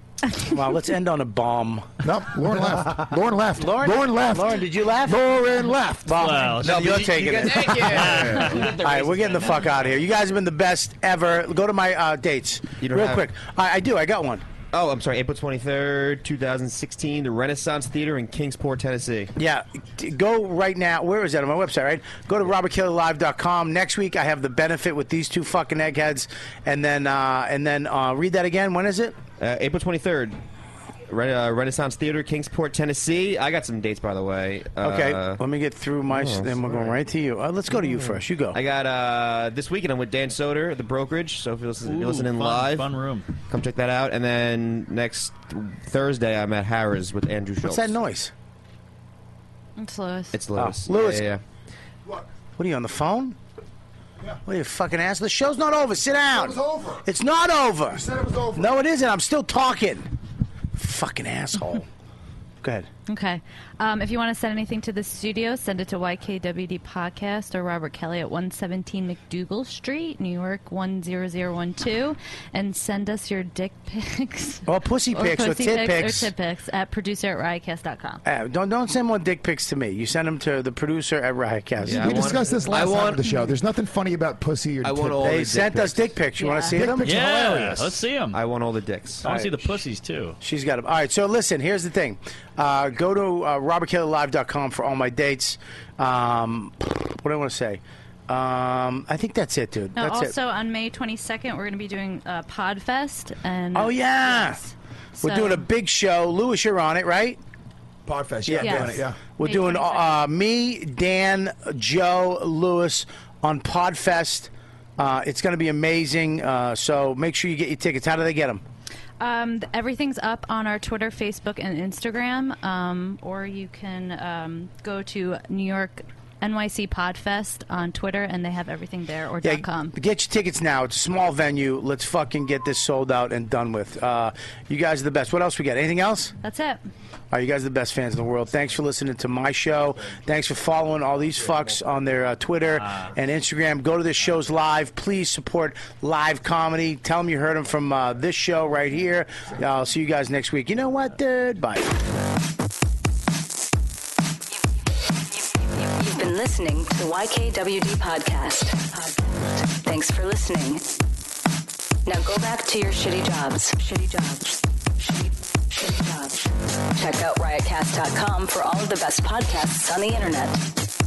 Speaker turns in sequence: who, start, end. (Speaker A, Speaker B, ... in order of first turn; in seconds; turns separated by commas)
Speaker A: 0.4-2.0, Speaker B: 2.0-6.1, Speaker A: 3.6-5.2, Speaker A: 6.1-14.4, Speaker C: 6.2-8.8, Speaker D: 6.6-9.8, Speaker D: 12.8-13.3, Speaker D: 14.7-19.3, Speaker A: 19.4-29.2, Speaker D: 29.4-30.4, Speaker D: 31.1-35.4, Speaker A: 34.8-38.6, Speaker D: 36.1-36.9, Speaker D: 38.5-42.9, Speaker C: 41.9-43.3, Speaker D: 43.5-48.0, Speaker A: 47.6-48.3, Speaker E: 49.8-50.4, Speaker D: 50.3-51.4, Speaker A: 50.6-51.2, Speaker A: 52.6-53.4, Speaker A: 54.5-60.1, Speaker B: 56.3-57.1, Speaker B: 57.9-58.8, Speaker A: 60.8-61.9, Speaker A: 62.6-62.9, Speaker E: 63.1-78.2, Speaker A: 74.7-76.3, Speaker A: 78.2-82.3, Speaker D: 81.8-83.3, Speaker B: 81.9-85.3, Speaker D: 84.8-86.1, Speaker A: 85.2-87.2, Speaker E: 86.4-86.8, Speaker B: 86.7-87.9, Speaker C: 87.0-88.4, Speaker D: 88.3-89.3, Speaker C: 89.2-90.4, Speaker A: 89.2-89.7, Speaker A: 90.4-100.3, Speaker E: 100.0-105.7, Speaker A: 103.7-104.6, Speaker A: 105.2-107.4, Speaker B: 108.1-109.2, Speaker A: 108.5-118.6, Speaker E: 108.5-110.3, Speaker E: 119.2-130.0, Speaker A: 129.4-136.3, Speaker E: 136.4-136.8, Speaker A: 137.3-151.9, Speaker F: 155.3-160.9, Speaker F: 162.1-170.6